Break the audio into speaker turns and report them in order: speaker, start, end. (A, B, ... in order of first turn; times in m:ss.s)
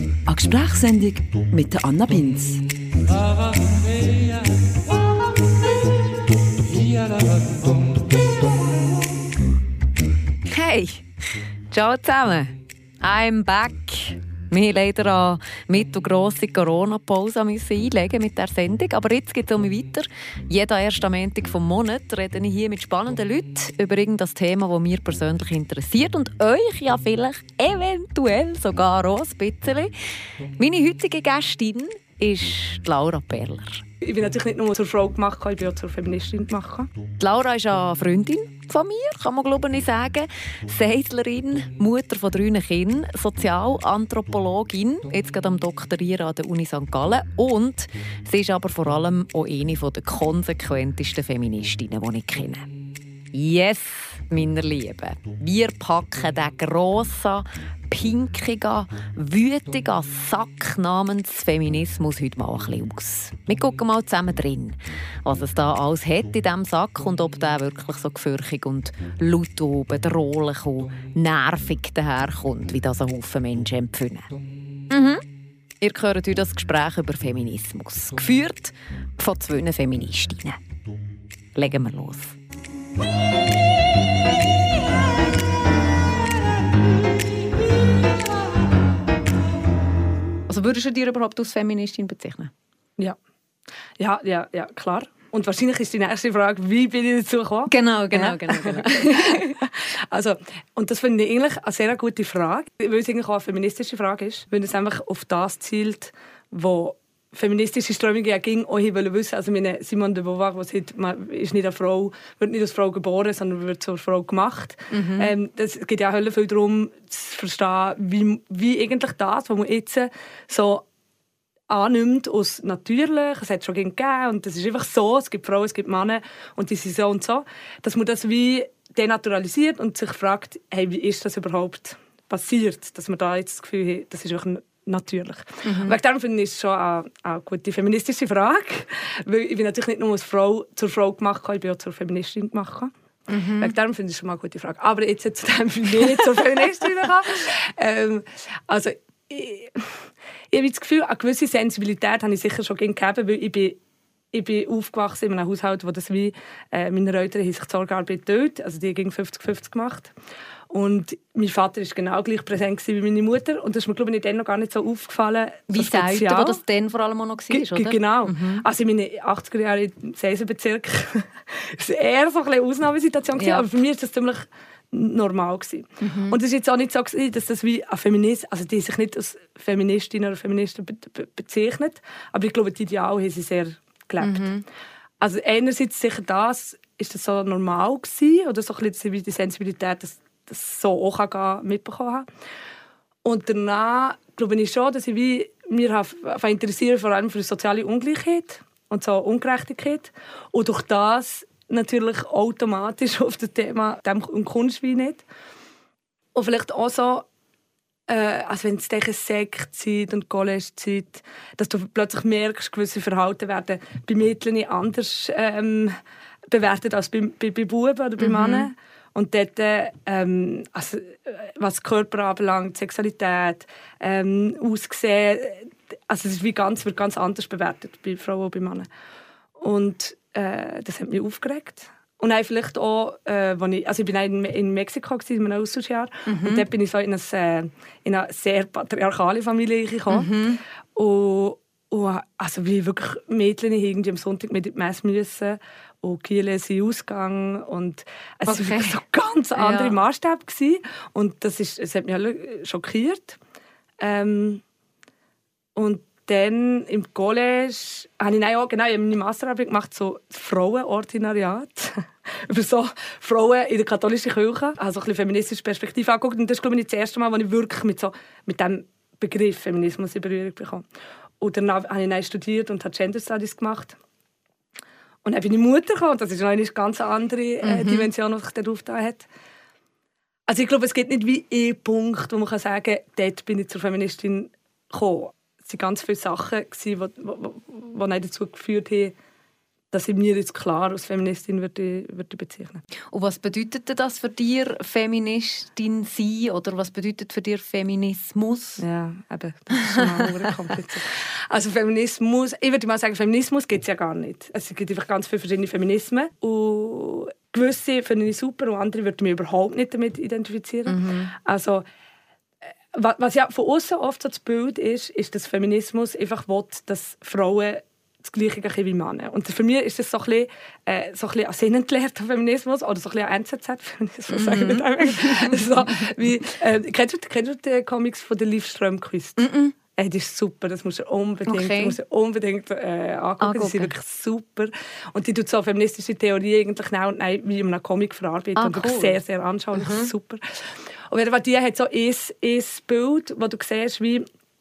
0:00.3-0:02.6 A
0:06.8-0:07.7 A
0:10.5-0:11.1 B
0:11.7-0:29.9 B
0:30.6-0:33.8 B
0:34.0-0:36.9 C
0:37.2-0:52.7 B
0:53.3-1:14.3 B
1:14.9-1:15.2 B
1:15.8-1:20.6 B
1:21.6-1:22.4 B
1:30.5-1:32.5 B
1:34.0-2:00.9 C
1:37.7-1:39.6 B
1:54.9-1:55.3 B
2:01.7-2:22.9 C
2:15.6-2:16.0 B
2:23.3-2:23.7 B
2:23.6-2:33.8 C
2:34.3-2:40.1 C
2:40.7-2:46.6 C
2:45.7-2:48.6 B
2:47.5-3:04.5 C
2:53.4-2:53.7 B
2:56.0-2:56.4 B
3:04.2-3:04.6 B
3:05.2-3:12.3 C
3:13.2-3:25.2 C
3:26.3-3:27.3 C
3:28.1-3:36.0 C
3:36.5-3:48.9 C
3:38.2-3:38.7 B
3:49.6-4:00.3 C
3:56.3-3:56.6 B
4:00.1-4:00.6 B
4:01.0-4:13.4 C
4:08.5-4:09.0 B
4:09.6-4:10.0 B
4:14.0-4:14.6 C
4:15.8-4:30.8 C
4:31.4-4:34.0 C
4:35.2-4:39.3 C
4:37.6-4:38.1 B
4:40.5-4:49.1 C
4:49.9-4:52.8 C
4:53.1-4:58.8 B
4:58.8-5:11.8 C
4:59.8-5:00.2 B
5:10.9-5:11.3 B
5:12.9-5:44.2 C
5:24.3-5:26.2 B
5:29.4-5:29.8 B
5:31.5-5:32.0 B
5:33.4-5:33.9 B
5:38.6-5:39.2 B
5:39.7-5:40.1 B